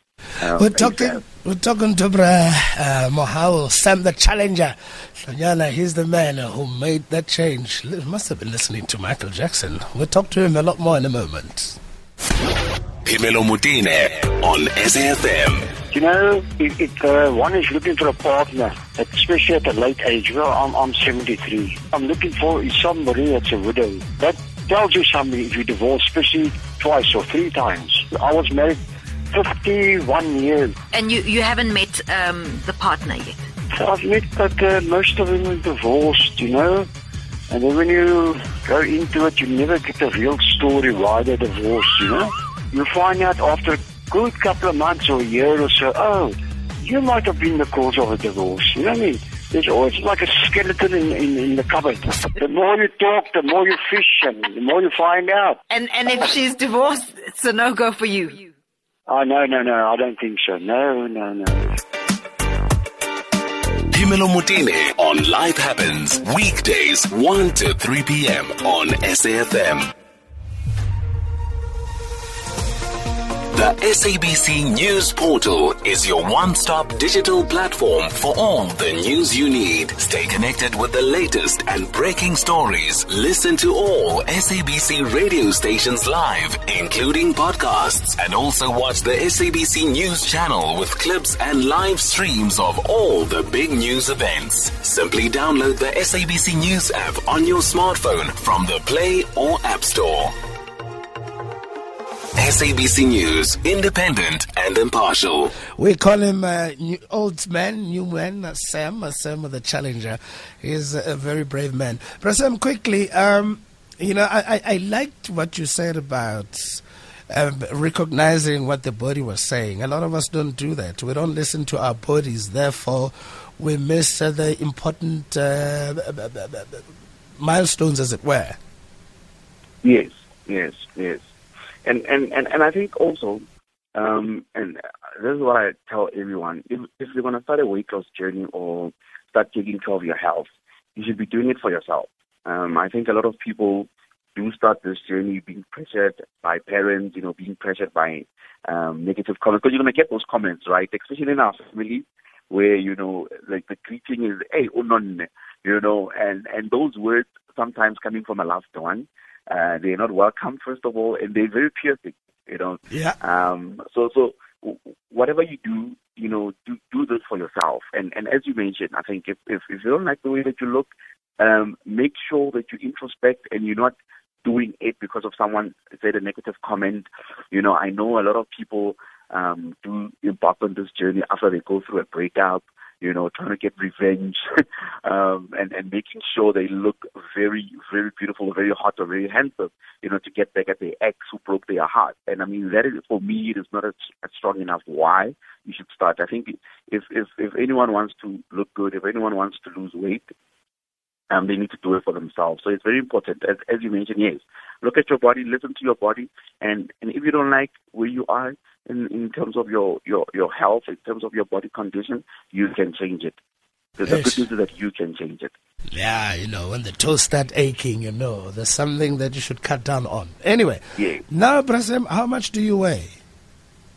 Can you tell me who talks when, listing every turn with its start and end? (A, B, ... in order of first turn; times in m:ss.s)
0:00.4-0:01.2 A
0:00.5-0:11.8 B
0:13.0-0:15.7 C
0:15.9-0:30.8 D
0:30.9-0:33.4 E
0:33.7-0:36.9 D
0:37.5-0:55.6 D
0:55.7-0:58.5 E
0:59.1-1:01.8 D
1:03.9-1:09.9 C
1:13.5-1:40.3 C
1:42.4-1:45.5 C
1:45.8-2:06.9 B
2:07.4-2:08.6 B
2:09.8-2:11.2 A
2:11.8-3:20.3 A
2:42.9-2:43.2 B
3:21.3-3:33.4 A
3:34.0-3:35.5 A
3:34.0-3:34.4 B
3:35.9-3:43.2 B
3:41.0-3:41.2 A